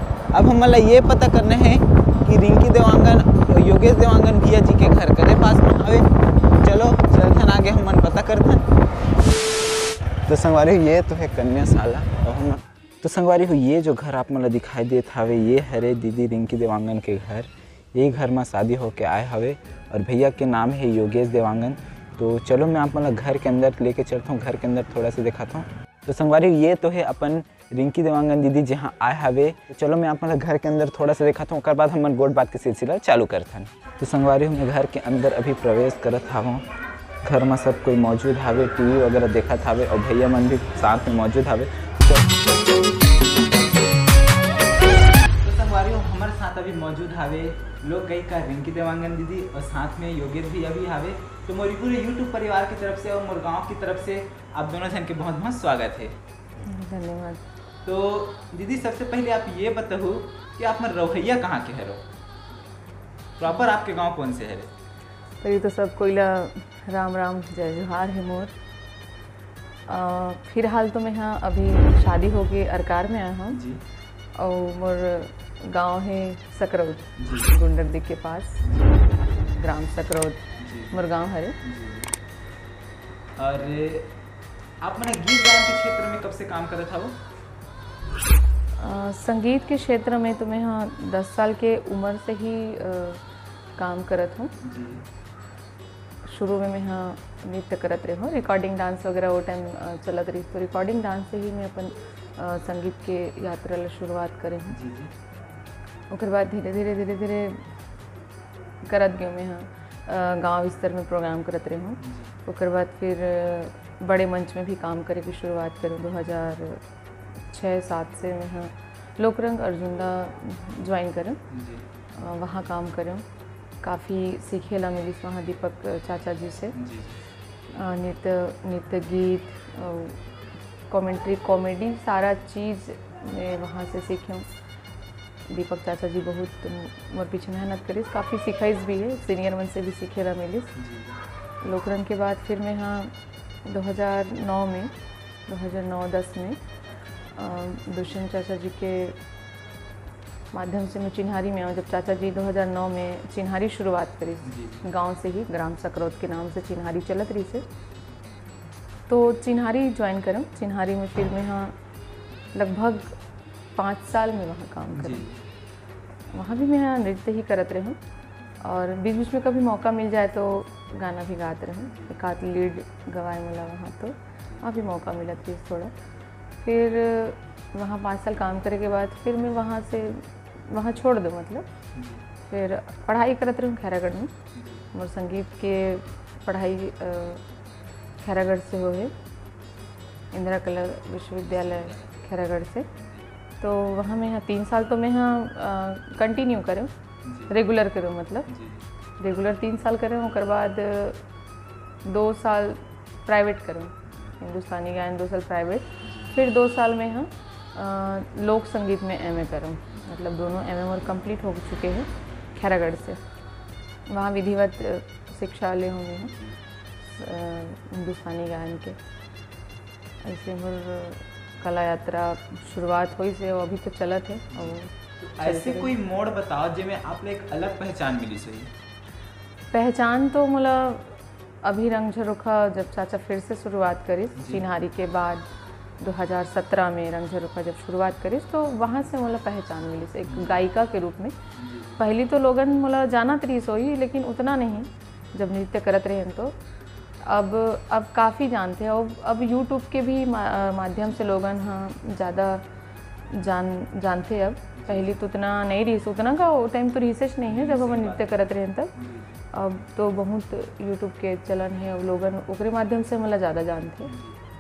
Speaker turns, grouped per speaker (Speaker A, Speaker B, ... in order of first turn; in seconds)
Speaker A: 0.3-6.0, 6.6-8.7, 10.3-36.6, 37.2-42.4, 45.4-56.1, 57.8-62.0, 63.4-64.7, 73.5-73.8, 77.2-77.5, 78.6-78.9, 80.6-81.0, 81.6-82.1, 83.4-84.1, 84.8-87.2, 94.6-95.0, 104.7-105.1, 112.0-112.3, 121.5-121.8, 126.7-127.2, 140.8-141.2, 154.4-154.8, 164.9-165.4, 181.9-182.2, 184.6-184.8, 191.5-192.1, 197.2-197.5, 198.5-198.8, 206.0-206.4, 224.5-228.7, 234.3-234.6, 240.3-240.6, 241.6-242.0, 254.8-255.1, 257.5-258.4, 258.9-259.4, 264.0-264.4
Speaker B: 56.6-57.4, 65.4-68.5, 69.9-73.6, 74.3-78.6, 79.3-81.6, 88.8-93.2, 93.8-94.5, 96.3-104.8, 106.1-107.6, 108.8-116.8, 117.5-121.4, 122.2-123.2, 123.8-126.8, 127.7-130.2, 130.9-134.4, 135.5-140.7, 141.6-143.1, 143.6-144.9, 145.5-146.6, 147.3-149.2, 150.5-157.6, 159.1-161.7, 162.5-163.2, 163.8-165.2, 166.3-168.0, 168.6-175.9, 176.6-181.7, 182.5-184.3, 184.9-187.4, 188.2-189.1, 190.3-192.9, 193.6-196.9, 197.5-198.5, 199.2-201.2, 202.0-213.2, 214.1-216.3, 217.1-219.0, 220.2-224.9, 225.4-225.9, 229.7-235.4, 236.0-241.3, 242.0-246.5, 247.2-252.6, 253.3-258.9, 259.5-264.1